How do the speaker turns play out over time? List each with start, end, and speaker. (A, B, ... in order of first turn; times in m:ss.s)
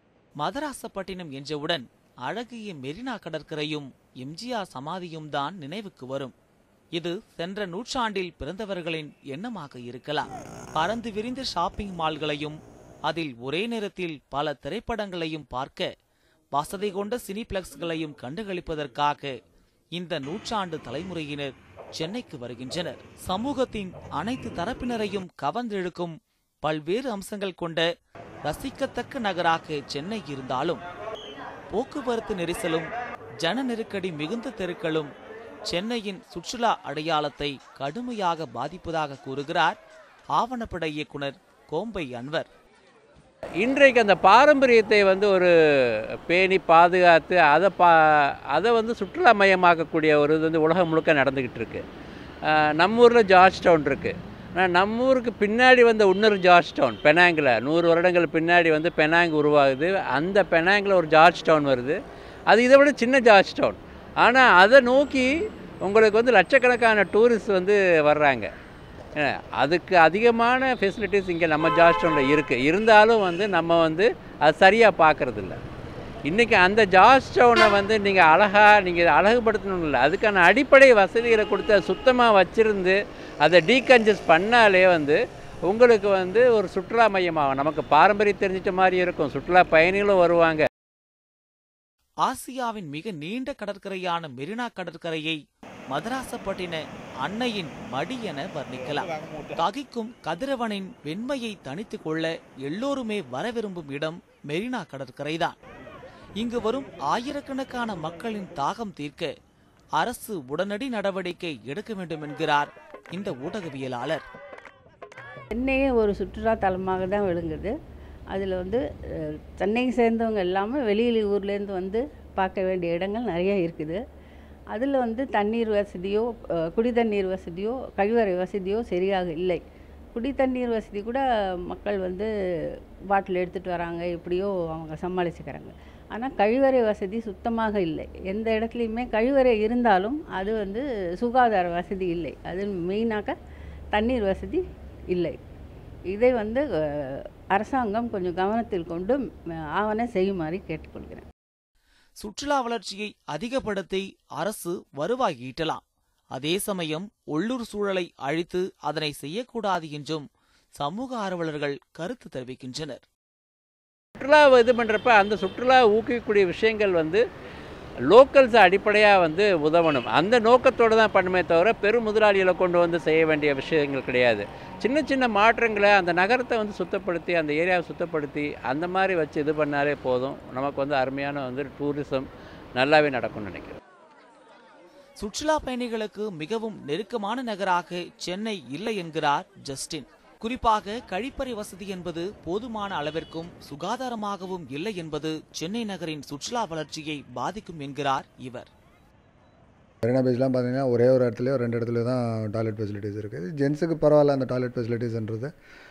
0:00.4-0:06.3 A
0:07.0-0:15.9 A
0:16.5-0:19.3 A
0:19.9-0:27.8 A
0:28.4-0:30.8 A
0:31.7-0:32.9 A
0:33.4-0:35.1 A
0:35.7-0:39.8 A
0:40.3-0:42.5 A
0:43.6-0:45.5 B
0:46.3-0:51.8 B
0:52.4-1:02.0 B
1:02.5-1:05.3 B
1:05.8-1:08.5 B
1:09.2-1:15.6 B
1:16.3-1:30.6 B
1:32.2-1:35.4 A
1:35.9-1:45.6 A
1:46.4-1:49.3 A
1:50.0-1:54.2 A
1:55.5-1:57.7 C
1:58.3-2:04.0 C
2:04.7-2:09.6 C
2:10.1-2:12.3 C
2:13.1-2:23.3 C
2:23.9-2:25.4 C
2:26.1-2:29.2 C
2:29.7-2:31.2 C
2:32.2-2:35.8 A
2:36.3-2:40.2 A
2:40.8-2:43.0 A
2:44.2-2:47.2 B
2:48.1-3:03.8 B
3:05.2-3:18.7 A
3:20.0-3:25.5 D